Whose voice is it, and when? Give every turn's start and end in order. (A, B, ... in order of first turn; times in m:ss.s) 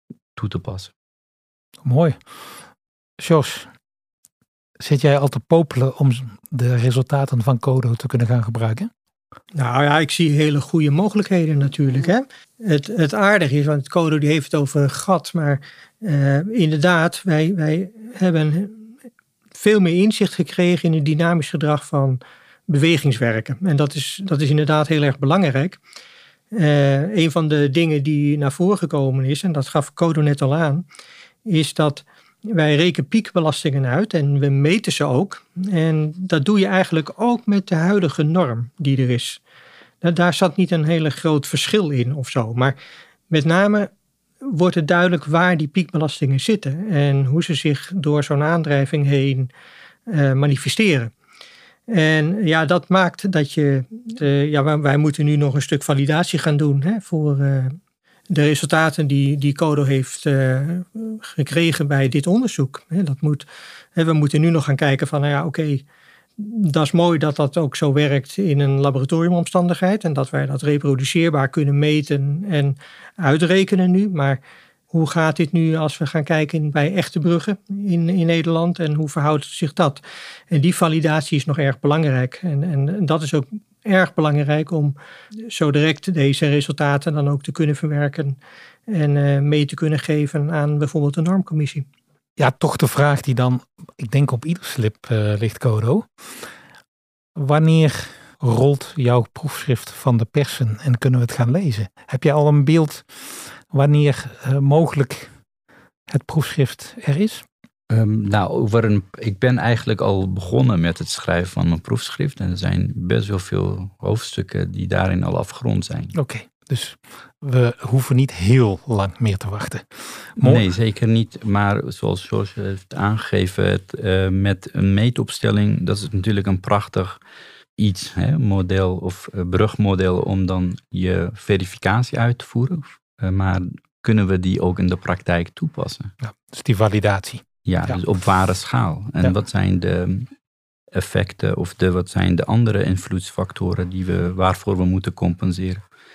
0:00.4-0:00.9 A
0:01.8-0:02.2 B
0:03.2-0:03.7 B
0:04.8-0:08.9 B
0:09.6-0:18.8 C
0:19.6-0:25.8 C
0:26.5-0:30.8 C
0:31.5-0:39.4 C
0:40.0-0:42.8 C
0:43.3-0:43.9 C
0:44.4-0:49.5 C
0:50.1-0:51.1 C
0:51.9-0:57.8 C
0:58.3-1:05.8 C
1:06.4-1:14.4 C
1:14.9-1:25.0 C
1:25.5-1:28.4 C
1:28.9-1:31.9 C
1:32.4-1:36.1 B
1:37.4-1:45.3 B
1:46.1-1:47.4 B
1:47.9-1:56.2 A
1:56.2-2:00.6 B
2:00.4-2:07.2 A
2:07.8-2:16.1 A
2:16.2-2:18.0 B
2:17.7-2:20.3 A
2:20.9-2:25.8 A